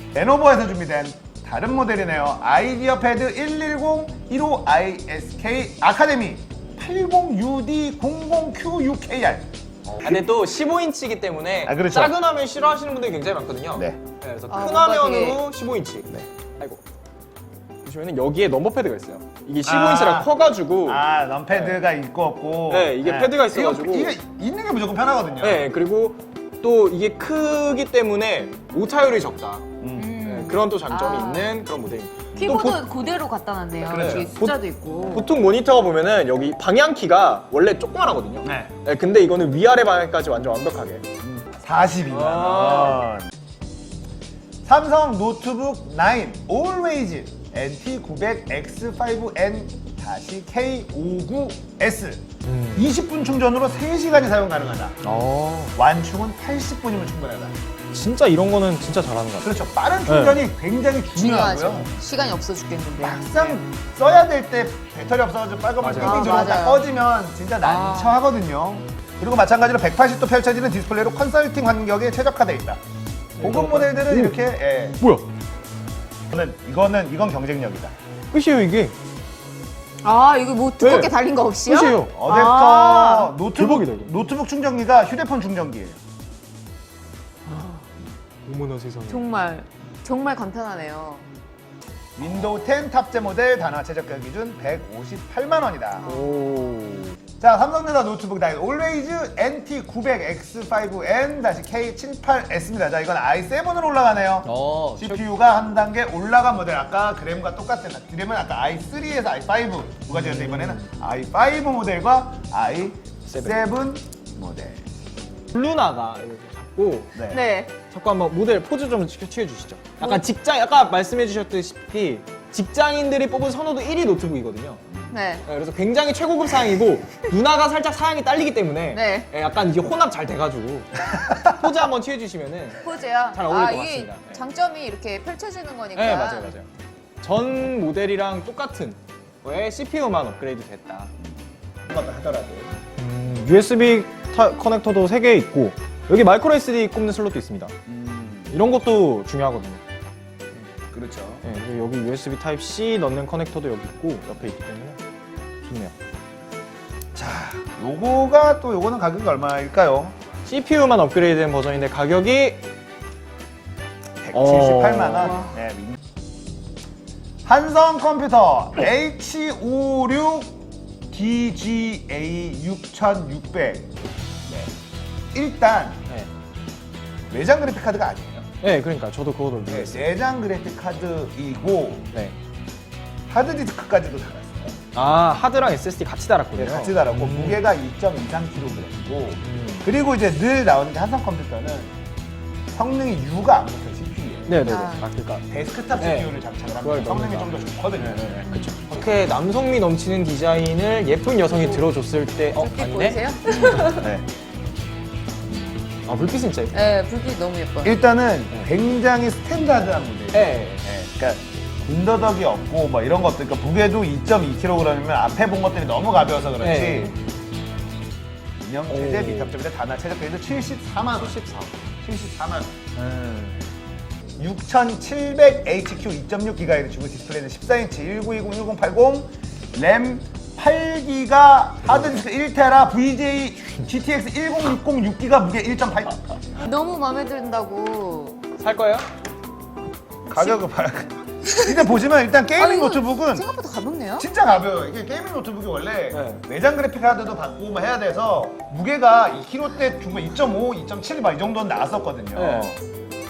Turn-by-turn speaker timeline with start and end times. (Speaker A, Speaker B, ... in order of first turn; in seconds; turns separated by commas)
Speaker A: 0.1-9.5, Speaker B: 9.8-16.8, Speaker A: 10.0-10.3, Speaker A: 11.6-12.1, Speaker C: 14.5-15.4, Speaker B: 17.8-21.8, Speaker A: 19.6-25.7, Speaker B: 22.7-24.2, Speaker B: 25.4-29.7, Speaker A: 29.8-30.2, Speaker C: 29.9-31.6, Speaker B: 30.2-32.9, Speaker A: 32.3-32.8, Speaker C: 32.4-35.4, Speaker B: 33.8-41.0, Speaker A: 33.9-34.3, Speaker A: 38.4-38.7, Speaker A: 41.2-43.3, Speaker B: 42.1-43.0, Speaker A: 44.6-55.0, Speaker B: 52.4-52.9, Speaker B: 55.0-55.7, Speaker A: 55.7-57.6, Speaker B: 57.9-59.5, Speaker A: 59.4-61.9, Speaker B: 60.1-60.4, Speaker C: 61.1-63.6, Speaker A: 63.0-72.8, Speaker B: 65.8-66.6, Speaker C: 66.0-66.9, Speaker B: 67.6-68.2, Speaker A: 73.4-75.0, Speaker B: 73.4-75.3, Speaker A: 76.3-77.9, Speaker B: 78.3-79.0, Speaker C: 80.0-83.4, Speaker B: 80.8-81.1, Speaker B: 81.6-82.2, Speaker A: 82.1-86.0, Speaker B: 83.5-84.2, Speaker B: 87.5-89.3, Speaker C: 89.1-91.3, Speaker A: 92.2-96.1, Speaker C: 96.0-96.7, Speaker B: 96.0-97.2, Speaker A: 97.4-114.8, Speaker B: 104.4-105.2, Speaker B: 110.1-110.9, Speaker B: 113.3-113.6, Speaker B: 115.5-117.2, Speaker A: 117.1-117.4, Speaker C: 117.3-117.7, Speaker B: 117.7-124.8, Speaker A: 124.9-125.1, Speaker C: 125.1-125.4, Speaker B: 125.4-134.4, Speaker C: 128.9-129.3, Speaker C: 132.8-136.5, Speaker B: 135.9-136.7, Speaker B: 137.2-141.1, Speaker A: 141.2-142.7, Speaker B: 143.0-147.7, Speaker A: 147.9-148.6, Speaker B: 148.5-149.8, Speaker A: 150.9-151.4, Speaker B: 151.4-155.0, Speaker B: 155.6-155.9, Speaker A: 157.1-160.1, Speaker B: 160.4-162.7, Speaker A: 164.2-166.0, Speaker B: 164.3-165.4, Speaker C: 165.2-165.6, Speaker A: 167.4-170.6, Speaker A: 171.1-173.9, Speaker A: 174.4-174.7, Speaker A: 175.3-176.0, Speaker A: 177.3-178.5, Speaker B: 178.6-180.1, Speaker A: 179.7-182.1, Speaker A: 183.3-184.8, Speaker B: 184.9-187.6, Speaker A: 186.6-192.0, Speaker B: 189.4-189.9, Speaker A: 192.7-194.7, Speaker B: 194.5-195.4, Speaker C: 194.6-195.0, Speaker A: 195.5-198.4, Speaker B: 196.0-203.9, Speaker C: 198.5-198.8, Speaker C: 202.5-204.1, Speaker A: 203.6-204.2, Speaker B: 206.0-206.9, Speaker C: 206.7-208.0, Speaker A: 207.8-217.1, Speaker B: 210.3-210.9, Speaker B: 216.6-217.1, Speaker A: 218.6-221.4, Speaker B: 218.9-219.5, Speaker B: 221.1-221.7, Speaker A: 222.0-222.7, Speaker B: 222.9-223.6, Speaker A: 224.4-236.2, Speaker B: 231.8-232.2, Speaker C: 236.6-238.4, Speaker B: 238.6-239.1, Speaker C: 240.3-240.6, Speaker A: 240.3-243.4, Speaker C: 241.4-241.8, Speaker C: 242.6-244.2, Speaker A: 244.2-252.8, Speaker B: 246.1-246.4, Speaker B: 252.3-252.8